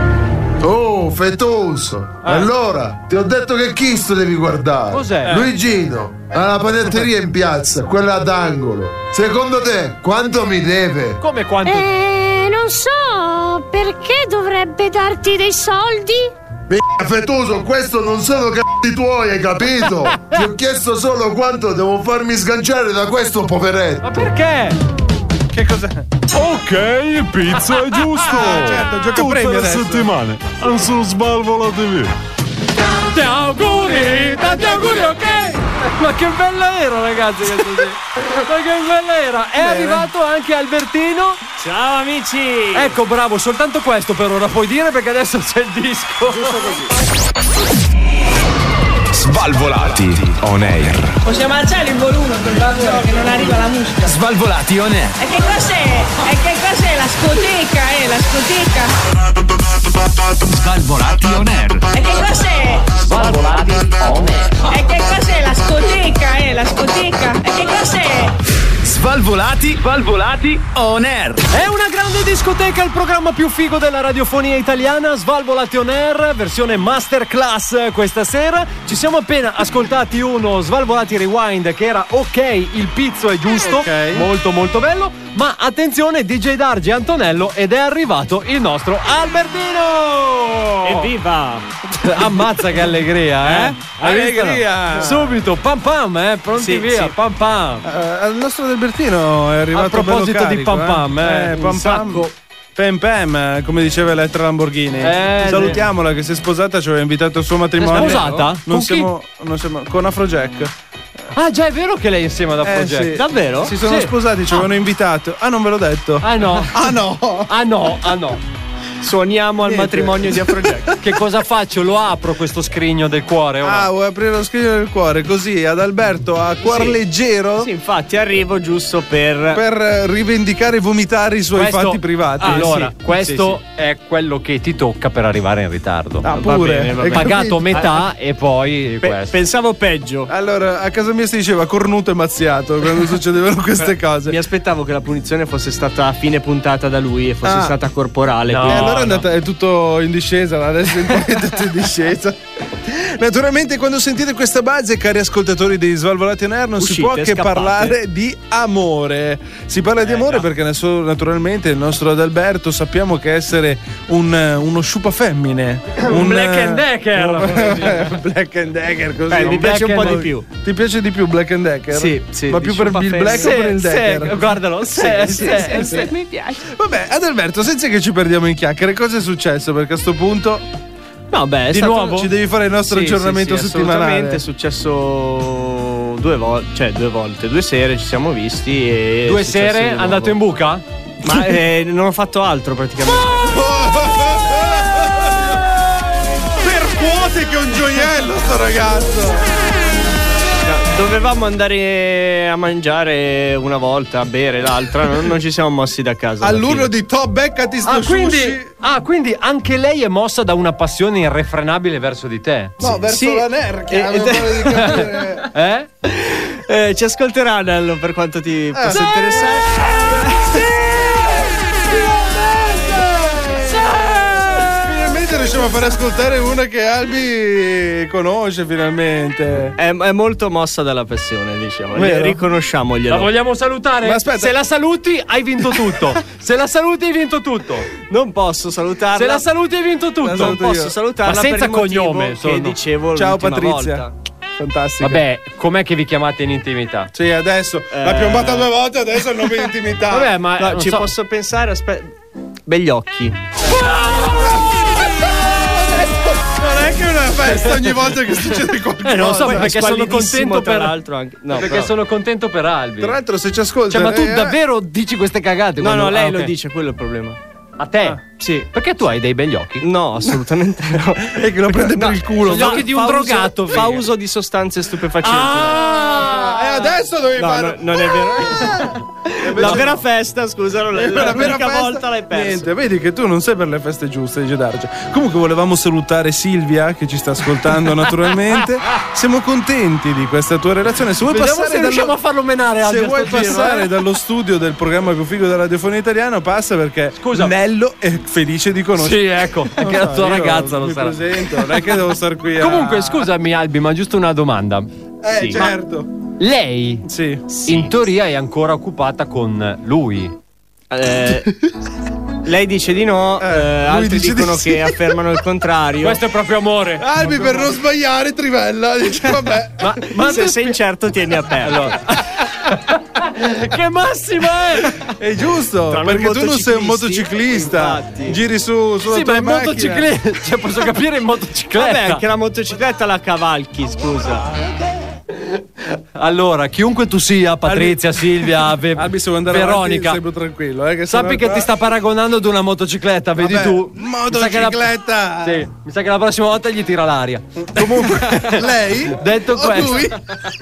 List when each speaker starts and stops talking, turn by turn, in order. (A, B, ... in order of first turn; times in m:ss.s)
0:00.6-0:11.2 A
0:02.2-0:02.5 B
0:04.9-0:05.5 B
0:11.2-0:11.9 B
0:11.6-0:16.3 C
0:16.7-0:24.3 A
0:24.0-0:24.8 B
0:25.5-0:26.1 D
0:26.3-0:32.1 E
0:28.2-0:30.1 D
0:33.1-0:41.4 B
0:34.2-0:35.4 D
0:39.6-0:40.1 D
0:41.6-0:42.9 F
0:42.7-0:46.7 B
0:49.1-0:51.2 G
0:51.3-0:54.0 H
0:54.0-0:55.2 G
0:55.2-0:58.9 H
1:00.5-1:01.9 G
1:01.9-1:02.8 H
1:03.1-1:04.5 B
1:04.7-1:08.3 H
1:08.8-1:11.4 G
1:11.5-1:31.1 B
1:23.8-1:24.3 D
1:30.8-1:31.7 F
1:32.0-1:37.9 B
1:33.4-1:33.8 F
1:33.9-1:35.4 D
1:36.6-1:37.1 F
1:37.8-1:50.7 D
1:39.7-1:42.0 B
1:41.6-1:42.3 F
1:45.0-1:45.8 B
1:47.8-1:49.1 B
1:47.9-1:48.4 F
1:51.3-1:54.1 B
1:52.6-1:57.5 D
1:53.1-1:53.7 F
1:56.2-1:56.8 B
1:57.5-1:58.4 B
1:59.0-2:01.0 F
1:59.6-2:01.2 D
2:01.0-2:03.9 B
2:03.6-2:07.7 D
2:06.6-2:07.0 F
2:07.6-2:09.6 F
2:09.5-2:12.9 D
2:11.6-2:16.3 B
2:12.4-2:13.6 F
2:16.2-2:17.9 D
2:16.2-2:18.0 F
2:17.1-2:19.3 B
2:19.0-2:20.3 F
2:20.3-2:24.4 D
2:23.8-2:29.0 F
2:27.4-2:27.8 D
2:28.5-2:29.3 B
2:28.6-2:56.1 D
2:36.8-2:38.0 F
2:40.1-2:40.4 B
2:46.0-2:48.1 B
2:49.3-2:50.5 F
2:49.4-2:50.3 B
2:51.9-2:53.7 F
2:53.3-2:56.1 B
2:55.0-2:56.1 F
2:56.7-3:00.6 D
3:01.3-3:02.3 F
3:01.7-3:02.2 B
3:01.7-3:04.4 D
3:02.9-3:10.4 F
3:09.3-3:10.8 B
3:11.2-3:13.7 F
3:13.5-3:15.1 D
3:16.6-3:19.5 D
3:20.6-3:26.9 F
3:26.4-3:28.7 D
3:27.8-3:32.9 B
3:32.8-3:35.5 D
3:32.8-3:35.0 F
3:34.7-3:35.9 B
3:36.0-3:40.6 F
3:38.7-3:39.6 D
3:42.3-3:49.8 D
3:49.8-3:53.3 F
3:51.9-3:52.4 D
3:53.1-3:57.9 B
3:54.0-3:54.6 D
3:58.1-3:59.4 F
3:59.2-4:00.6 B
4:00.2-4:01.0 D
4:00.3-4:04.1 F
4:01.2-4:02.8 B
4:03.2-4:04.1 D
4:04.6-4:05.2 D
4:05.0-4:07.1 B
4:07.1-4:10.3 D
4:07.9-4:08.7 F
4:10.1-4:11.1 B
4:10.6-4:12.1 F
4:12.7-4:13.4 F
4:16.6-4:19.8 D
4:19.0-4:21.0 B
4:19.3-4:21.9 F
4:21.5-4:23.2 B
4:23.0-4:24.6 D
4:23.9-4:26.5 B
4:25.8-4:27.4 F
4:27.8-4:28.2 B
4:28.4-4:28.7 F
4:28.7-4:29.8 B
4:29.8-4:36.0 F
4:31.3-4:33.0 D
4:32.5-4:34.1 B
4:35.2-4:36.9 B
4:36.2-4:40.0 D
4:37.4-4:42.7 F
4:39.6-4:40.0 B
4:40.9-4:52.2 D
4:51.3-4:53.9 B
4:52.8-5:03.3 D
4:57.2-4:57.5 B
4:59.0-5:01.2 B
5:02.6-5:04.9 B
5:05.2-5:06.1 D
5:05.3-5:05.7 F
5:06.4-5:07.1 B
5:07.0-5:07.5 D
5:07.5-5:07.9 F
5:07.6-5:10.3 B
5:10.9-5:11.7 F
5:12.4-5:16.2 F
5:13.4-5:15.2 D
5:16.0-5:17.1 B
5:17.0-5:20.1 D
5:17.2-5:17.7 F
5:19.8-5:20.8 B
5:20.1-5:22.0 F
5:21.6-5:25.0 B
5:25.1-5:30.1 D
5:25.9-5:28.4 F
5:29.1-5:32.2 B
5:31.8-5:34.5 F
5:36.2-5:40.2 B
5:37.7-5:41.7 D
5:41.1-5:44.8 B
5:43.4-5:45.6 D
5:45.4-5:50.1 B
5:47.7-5:50.1 D
5:49.7-5:50.1 F